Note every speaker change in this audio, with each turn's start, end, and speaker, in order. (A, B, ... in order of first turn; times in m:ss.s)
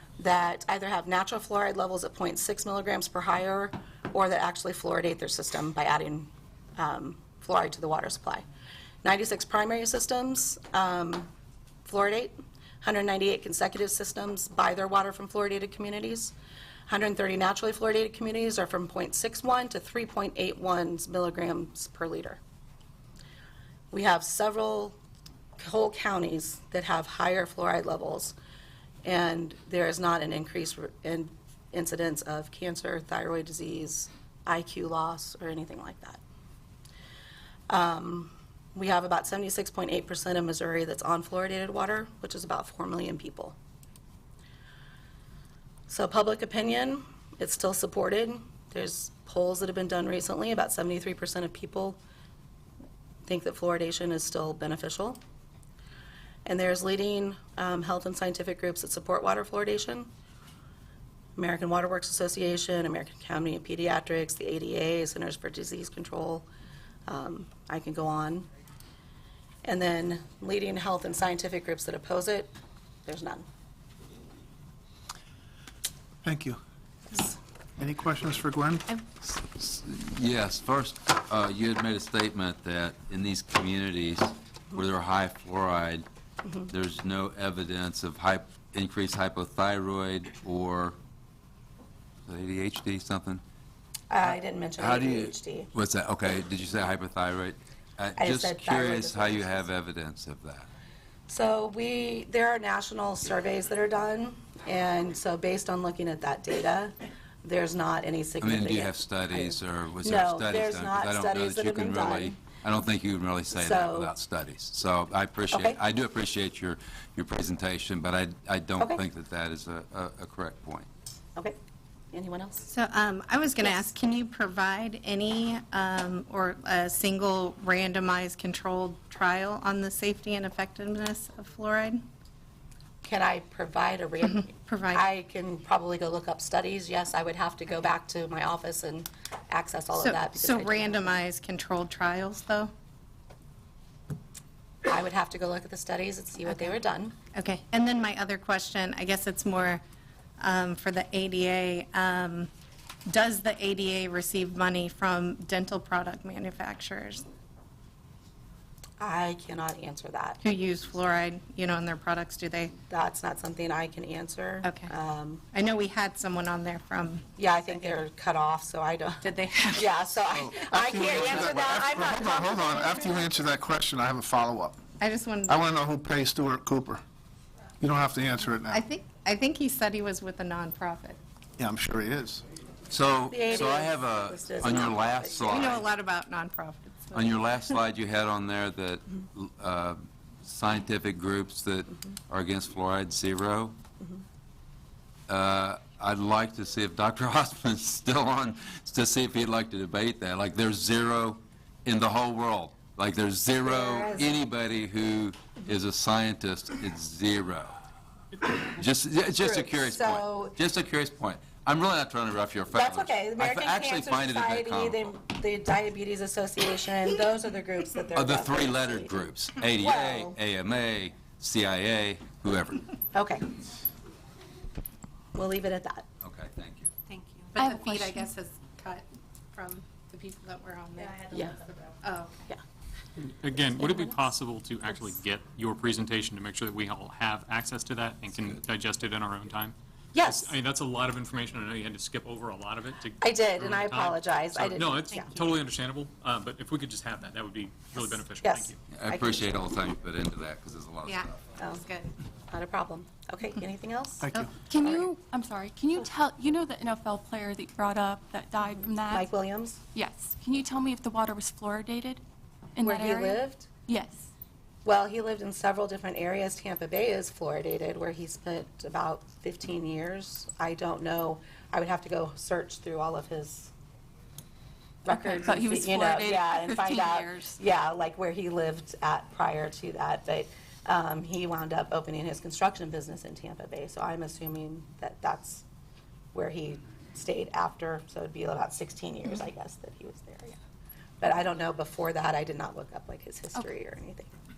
0:00.2-0:08.4 A
0:09.0-0:11.3 A
0:11.9-0:16.3 A
0:16.9-0:22.4 A
0:23.9-0:25.0 A
0:25.6-0:28.4 A
0:29.0-0:36.2 A
0:37.7-0:43.6 A
0:45.9-0:52.0 A
0:53.3-0:55.2 A
0:56.4-1:00.1 A
1:01.4-1:06.5 A
1:07.1-1:08.5 A
1:09.6-1:12.5 A
1:13.1-1:13.5 A
1:16.2-1:16.6 B
1:17.2-1:19.0 B
1:19.2-1:26.1 C
1:26.7-1:31.0 C
1:32.3-1:33.4 C
1:34.1-1:35.7 A
1:34.3-1:40.7 C
1:38.2-1:39.7 A
1:41.3-1:52.4 A
1:48.4-2:00.9 C
1:53.5-1:54.1 A
1:55.5-1:55.8 A
1:58.8-1:59.0 A
2:02.1-2:02.6 A
2:02.7-2:12.0 D
2:13.0-2:21.2 A
2:14.4-2:15.0 D
2:20.0-2:22.7 D
2:24.9-2:27.2 A
2:26.5-2:29.8 D
2:30.4-2:32.5 D
2:33.1-2:37.2 D
2:39.0-2:40.4 A
2:40.4-2:42.8 D
2:42.9-2:45.4 A
2:44.6-2:44.9 D
2:45.5-2:47.2 D
2:47.4-2:53.2 A
2:49.2-2:50.2 D
2:50.6-2:54.8 B
2:55.0-2:55.8 D
2:55.5-2:57.0 B
2:57.8-2:58.8 B
2:58.7-3:01.2 D
3:01.6-3:02.4 B
3:02.9-3:05.8 C
3:03.3-3:05.8 A
3:05.4-3:07.6 D
3:07.1-3:13.8 C
3:15.3-3:27.8 C
3:23.6-3:24.3 A
3:28.5-3:35.1 C
3:29.4-3:30.6 A
3:32.7-3:39.2 A
3:38.2-3:42.9 C
3:39.8-3:40.4 A
3:43.1-3:43.5 A
3:45.4-3:46.1 A
3:46.2-3:46.9 C
3:47.5-3:52.5 D
3:47.6-3:48.2 E
3:53.3-4:08.8 F
3:58.3-3:58.6 C
4:00.1-4:00.6 A
4:03.2-4:05.4 A
4:08.4-4:09.5 A
4:08.9-4:11.4 C
4:11.0-4:12.1 D
4:12.5-4:15.1 A
4:14.2-4:14.5 B
4:14.7-4:19.3 E
4:19.1-4:19.8 A
4:19.9-4:22.2 E
4:22.8-4:24.3 E
4:22.8-4:23.7 A
4:24.8-4:33.7 A
4:35.0-4:45.6 A
4:35.1-4:37.6 E
4:46.3-4:50.6 A
4:51.2-4:54.3 A